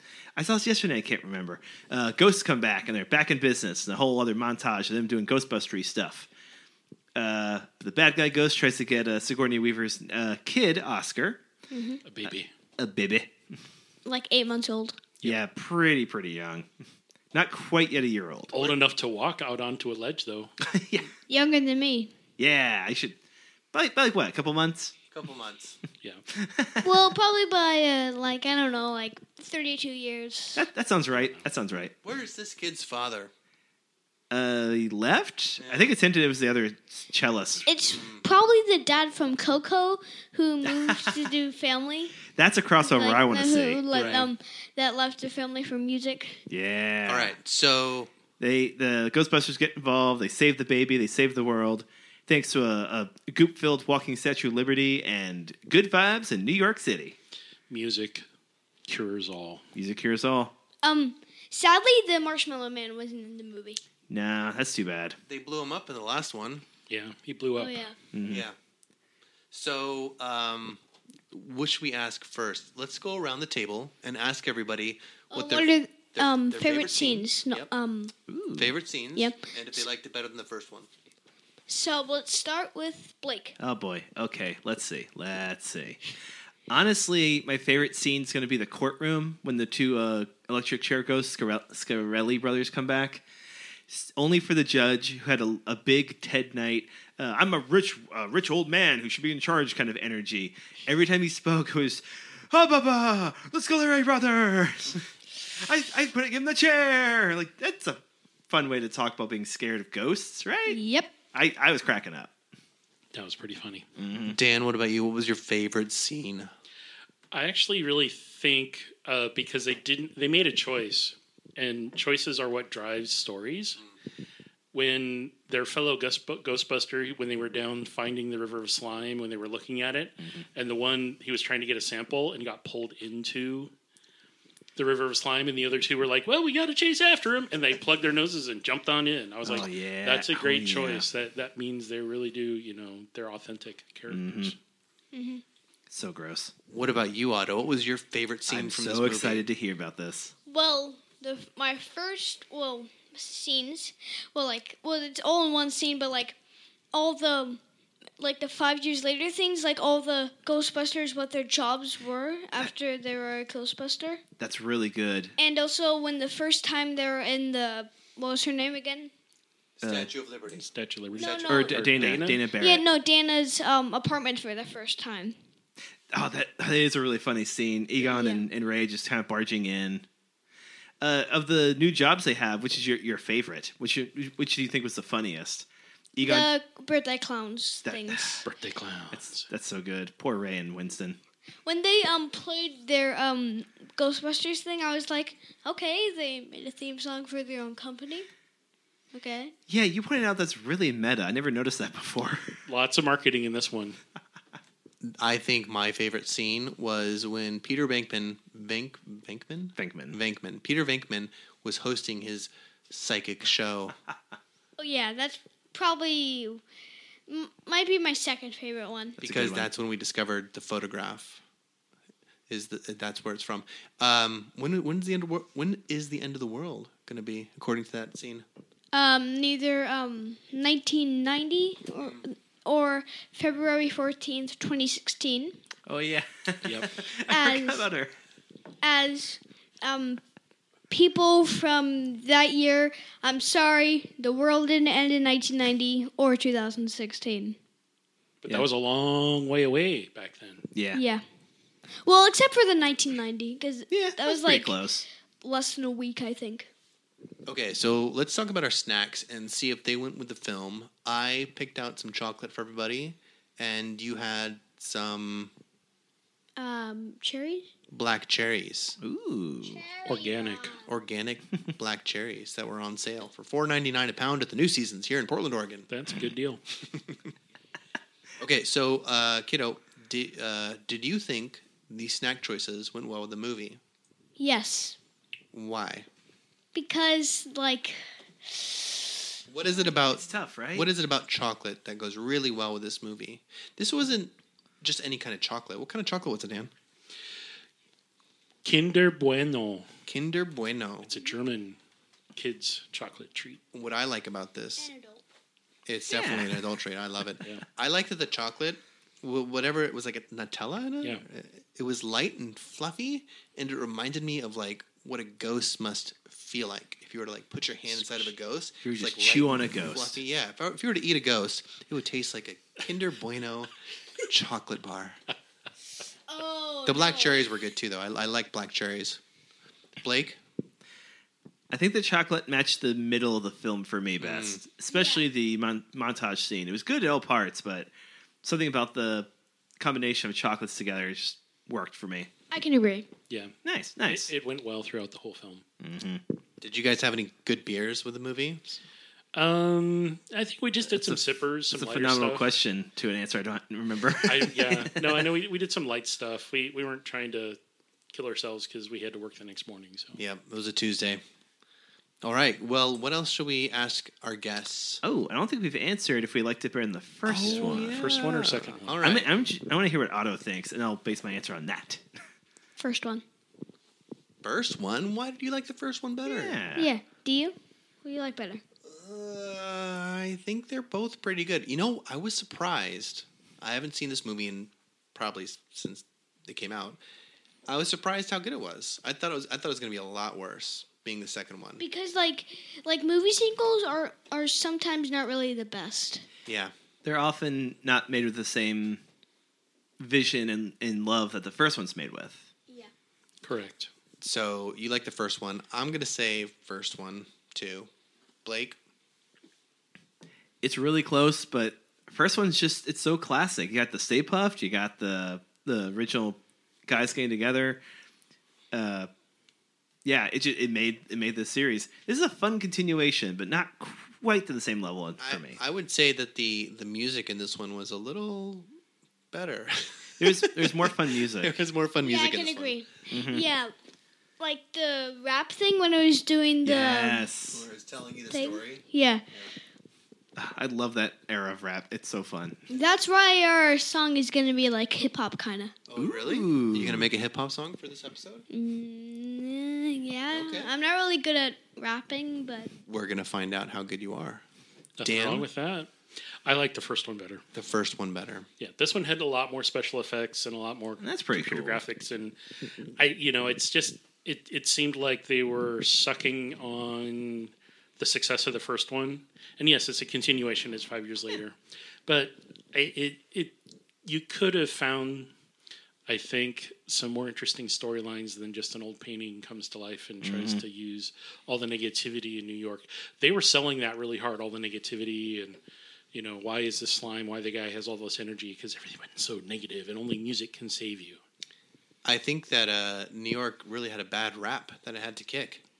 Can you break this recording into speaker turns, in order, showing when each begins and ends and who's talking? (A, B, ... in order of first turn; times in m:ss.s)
0:00.4-0:06.3 A
0:07.2-0:11.4 A
0:11.7-0:12.0 B
0:12.0-0:12.5 C
0:12.2-0:13.3 A
0:14.0-0:15.0 B
0:15.2-0:16.7 A
0:17.3-0:18.8 A
0:18.5-0:20.6 C
0:20.6-0:21.1 A
0:21.3-0:22.1 B
0:22.4-0:23.2 A
0:23.7-0:24.9 A
0:25.0-0:25.8 D
0:26.3-0:26.8 A
0:26.8-0:30.6 B
0:30.6-0:31.9 A
0:31.1-0:31.5 C
0:32.0-0:33.3 D
0:34.3-0:37.7 A
0:35.6-0:35.9 D
0:37.6-0:42.2 B
0:37.8-0:38.2 D
0:40.8-0:41.2 A
0:42.3-0:43.8 A
0:42.8-0:46.4 B
0:43.9-0:44.3 D
0:46.5-0:47.3 A
0:47.1-0:48.1 D
0:48.4-0:57.2 A
0:57.7-0:58.2 C
0:58.9-0:59.6 C
0:59.7-1:00.5 A
1:00.8-1:03.8 B
1:04.1-1:05.2 A
1:05.3-1:06.6 D
1:06.9-1:07.8 C
1:07.6-1:08.0 B
1:08.1-1:08.4 A
1:09.5-1:10.8 D
1:11.3-1:17.7 D
1:15.3-1:18.1 B
1:18.3-1:18.7 A
1:18.6-1:20.9 D
1:19.1-1:19.4 B
1:21.7-1:23.6 B
1:23.6-1:26.0 A
1:26.7-1:33.2 A
1:33.9-1:50.8 A
1:50.7-1:51.1 B
1:51.3-1:52.3 A
1:53.1-1:53.9 C
1:54.0-1:54.4 A
1:54.3-1:56.5 D
1:57.3-2:03.8 C
2:04.7-2:13.7 C
2:14.8-2:24.6 C
2:19.4-2:21.1 A
2:24.1-2:24.5 A
2:25.1-2:25.4 B
2:25.9-2:26.5 A
2:26.7-2:29.4 D
2:28.5-2:30.3 A
2:30.5-2:36.4 B
2:36.9-2:37.6 B
2:38.2-2:44.2 B
2:44.4-2:45.3 A
2:45.4-2:49.1 B
2:49.8-2:50.6 D
2:49.8-2:50.1 A
2:50.5-2:52.4 C
2:51.2-2:51.8 B
2:51.2-2:51.6 D
2:51.5-2:52.8 A
2:52.6-2:55.4 B
2:56.1-3:00.0 A
2:58.0-2:58.4 B
3:01.0-3:06.5 A
3:06.2-3:08.4 B
3:07.8-3:08.4 A
3:08.4-3:09.5 C
3:09.1-3:11.2 A
3:11.6-3:18.3 B
3:19.1-3:19.5 B
3:19.7-3:22.6 A
3:22.7-3:24.0 C
3:25.0-3:33.9 D
3:29.8-3:30.2 A
3:34.8-3:36.6 B
3:37.3-3:39.2 B
3:39.2-3:41.4 D
3:39.2-3:39.7 A
3:42.5-3:48.4 D
3:48.9-3:55.6 B
3:55.8-3:58.1 A
3:56.6-3:56.9 C
3:57.3-3:57.9 B
3:58.8-4:00.2 B
4:00.9-4:07.6 B
4:08.4-4:10.6 C
4:10.7-4:11.0 A
4:10.9-4:11.2 B
4:12.0-4:14.8 B
4:13.9-4:15.0 A
4:15.4-4:16.7 B
4:17.4-4:25.5 D
4:26.6-4:27.7 B
4:27.9-4:29.0 D
4:29.0-4:29.9 A
4:29.6-4:30.8 B
4:30.0-4:30.8 C
4:30.8-4:35.9 D
4:35.9-4:36.6 C
4:36.9-4:37.3 D
4:38.4-4:43.8 D
4:44.4-4:45.0 B
4:45.5-4:46.1 D
4:46.7-4:49.2 B
4:49.5-4:56.7 D
4:50.1-4:50.9 A
4:58.6-4:59.9 C
5:00.1-5:01.1 D
5:01.1-5:01.8 C
5:02.3-5:03.6 C
5:03.7-5:04.9 D
5:04.8-5:05.2 B
5:05.8-5:23.7 D
5:06.0-5:06.6 A
5:17.9-5:18.3 C
5:18.8-5:20.2 A
5:24.2-5:25.2 D
5:26.3-5:27.5 B
5:26.8-5:29.2 D
5:30.0-5:30.4 D
5:31.7-5:37.9 A
5:34.2-5:34.6 D
5:34.9-5:35.2 B
5:38.4-5:39.3 A
5:39.8-5:42.3 A
5:42.5-5:43.1 B
5:43.3-5:45.6 C
5:43.6-5:44.3 A
5:45.8-5:46.2 A
5:46.6-5:48.8 D
5:49.3-5:52.5 C
5:51.7-5:55.2 A
5:54.2-5:57.6 C
5:58.1-6:00.2 C
6:00.2-6:01.2 D
6:02.2-6:05.0 D
6:05.0-6:08.2 A
6:07.3-6:09.3 D
6:07.4-6:09.0 C
6:09.0-6:12.0 A
6:12.8-6:13.2 B
6:14.4-6:16.6 D
6:16.2-6:16.9 A
6:16.7-6:18.6 B
6:18.8-6:27.0 D
6:27.7-6:31.8 D
6:31.8-6:36.2 B
6:36.4-6:36.7 D
6:37.0-6:39.0 A
6:40.0-6:42.4 A
6:43.4-6:43.9 C
6:44.2-6:47.9 D
6:48.4-6:48.8 D
6:50.6-6:57.8 A
6:58.7-6:59.1 A
7:00.0-7:05.6 A
7:05.2-7:08.7 D
7:09.3-7:12.8 D
7:10.2-7:11.5 A
7:12.0-7:13.7 B
7:13.1-7:13.5 A
7:14.4-7:17.3 B
7:16.6-7:17.6 A
7:17.5-7:18.8 D
7:18.3-7:19.3 B
7:20.4-7:22.6 A
7:22.7-7:25.7 B
7:25.9-7:28.4 D
7:26.0-7:27.1 A
7:28.5-7:32.7 B
7:30.3-7:30.7 D
7:32.9-7:34.4 D
7:35.0-7:35.9 C
7:35.0-7:35.4 D
7:36.4-7:37.4 C
7:37.5-7:38.5 D
7:38.6-7:42.4 C
7:41.0-7:41.8 A
7:43.0-7:55.3 C
7:56.1-8:05.6 C
8:00.2-8:00.6 A
8:06.1-8:11.2 C
8:12.0-8:15.6 D